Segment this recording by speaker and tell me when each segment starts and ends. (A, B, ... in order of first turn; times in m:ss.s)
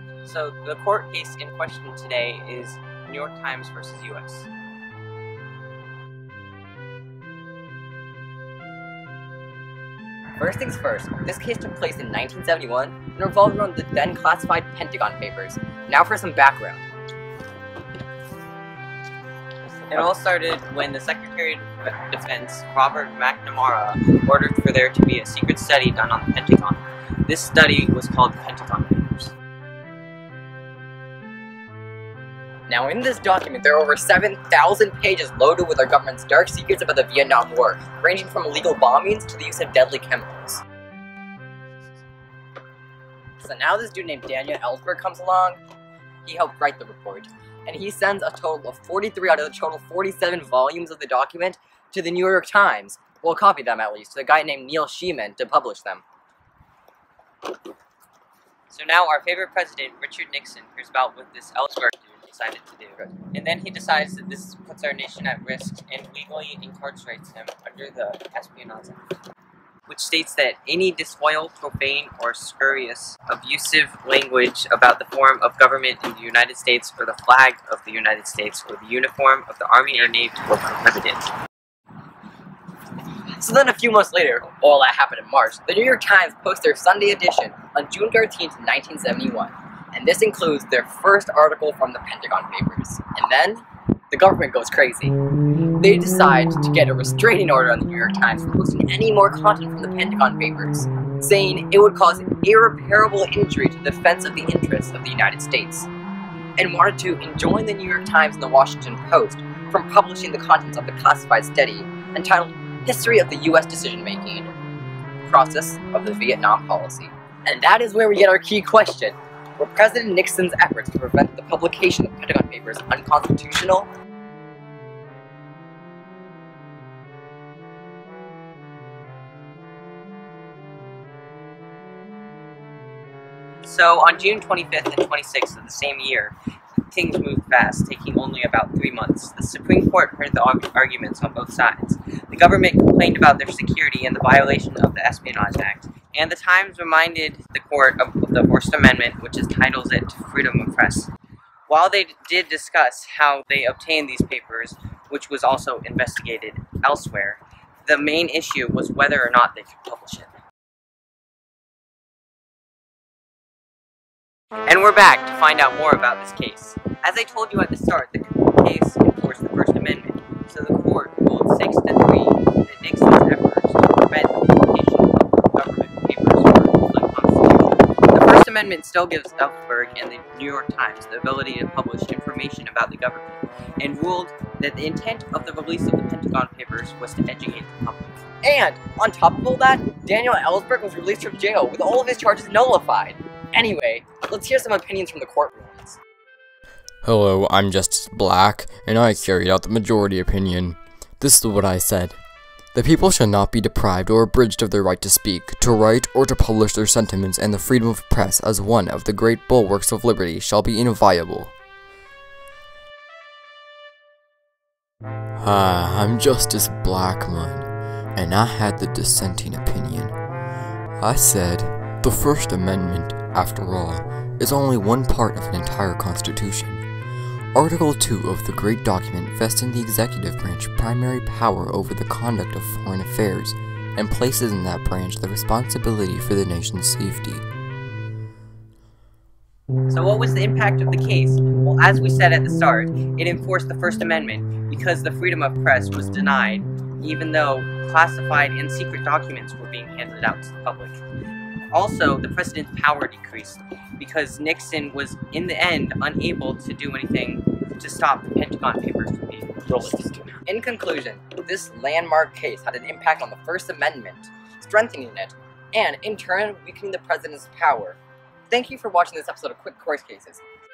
0:00.2-0:04.5 A
0:10.4-0:16.8 B
0:19.9-0:29.3 A
0:32.7-0:40.6 B
0:43.4-0:45.6 B
0:46.2-0:56.0 B
0:58.7-1:09.1 A
1:09.9-1:21.3 A
1:23.3-1:35.2 B
1:35.8-1:45.9 B
1:46.6-1:54.5 B
1:55.3-2:03.9 B
2:13.6-2:16.4 A
2:16.9-2:31.1 A
2:31.7-2:40.3 A
2:44.7-3:08.2 A
3:08.4-3:16.0 B
3:17.0-3:22.2 C
3:22.7-3:31.5 C
3:35.4-3:40.2 C
3:41.0-3:46.8 C
3:47.5-3:57.4 C
3:59.9-4:11.0 A
4:11.7-4:20.4 A
4:20.5-4:28.0 B
4:28.5-4:30.4 B